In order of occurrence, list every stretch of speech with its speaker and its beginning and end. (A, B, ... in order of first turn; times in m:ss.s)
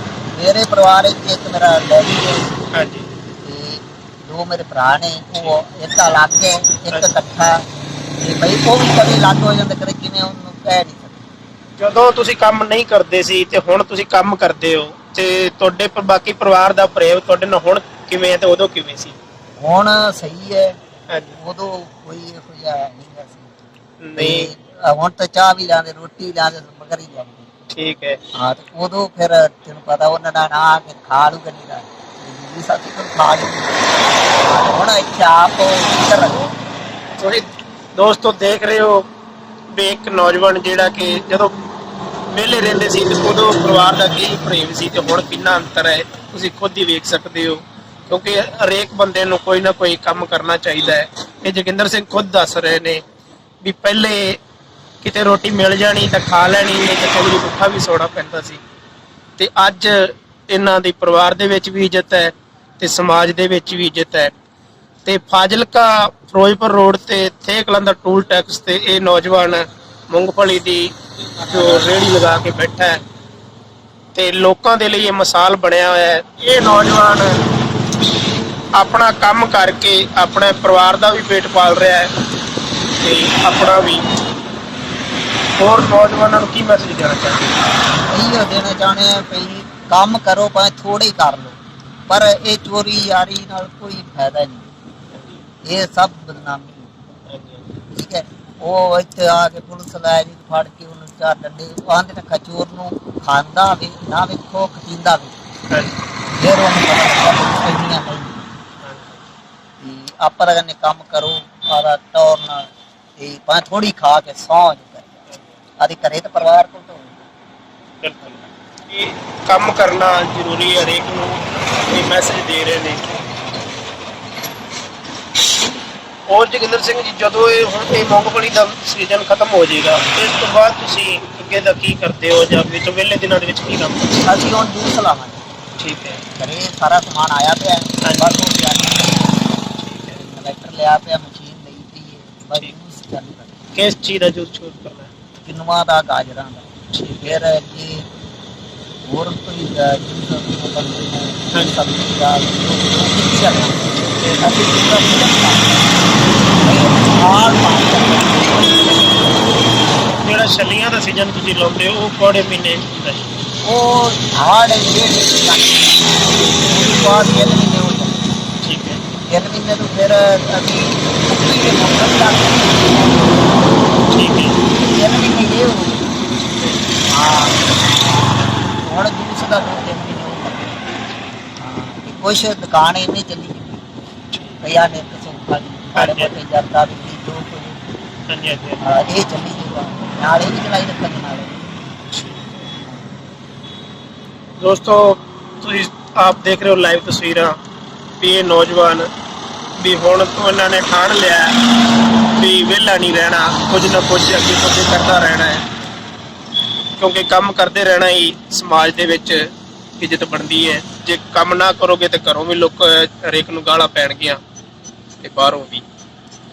0:00.3-0:02.6 A
0:02.7-0:03.1 B
0:03.4-0:07.6 A
0:08.2-0:11.2 A
0:11.8-0:19.2 B
0:19.6-0:20.8 A
0:21.1-0:21.4 B
0:21.4-0:27.5 A
0:24.0-0:24.5 B
0:27.7-0:28.2 B
0:28.3-0:36.5 A
0:37.2-0:39.1 B
0:39.7-0:41.5 B
0:42.3-0:53.0 B
0:53.6-0:54.4 B
0:55.0-0:58.6 B
0:59.4-1:04.3 B
1:05.0-1:10.9 B
1:11.5-1:13.0 B
1:14.1-1:17.3 B
1:18.8-1:22.1 B
1:23.0-1:24.1 B
1:25.6-1:27.5 B
1:28.1-1:34.7 A
1:35.1-1:35.4 B
1:35.6-1:36.9 A
1:37.3-1:37.6 B
1:37.9-1:45.4 A
1:45.7-1:45.9 B
1:46.3-1:48.5 A
1:48.8-1:49.2 B
1:49.8-1:55.1 A
1:55.8-1:57.3 A
1:58.0-2:03.2 B
2:06.3-2:14.2 B
2:14.2-2:15.4 A
2:15.8-2:16.2 B
2:16.3-2:23.5 A
2:18.0-2:18.3 B
2:19.8-2:20.2 B
2:23.7-2:25.1 B
2:25.4-2:26.7 A
2:26.9-2:27.4 B
2:27.2-2:28.1 A
2:29.1-2:35.9 A
2:34.1-2:34.4 B
2:36.6-2:39.8 A
2:40.0-2:43.3 B
2:43.6-2:48.3 A
2:48.6-2:49.0 B
2:49.3-2:54.0 A
2:54.1-2:54.6 B
2:54.7-2:56.2 A
2:56.5-2:56.9 B
2:57.1-3:00.9 A
3:01.6-3:03.9 A
3:04.3-3:04.6 B
3:04.6-3:07.8 A
3:05.9-3:06.3 B
3:08.3-3:08.8 B
3:08.8-3:11.7 A
3:12.1-3:12.6 B
3:12.7-3:13.1 A
3:14.6-3:17.5 B
3:18.2-3:19.1 B
3:19.8-3:21.6 B
3:22.4-3:25.6 B
3:27.0-3:29.4 B
3:30.0-3:34.4 B
3:35.2-3:35.8 B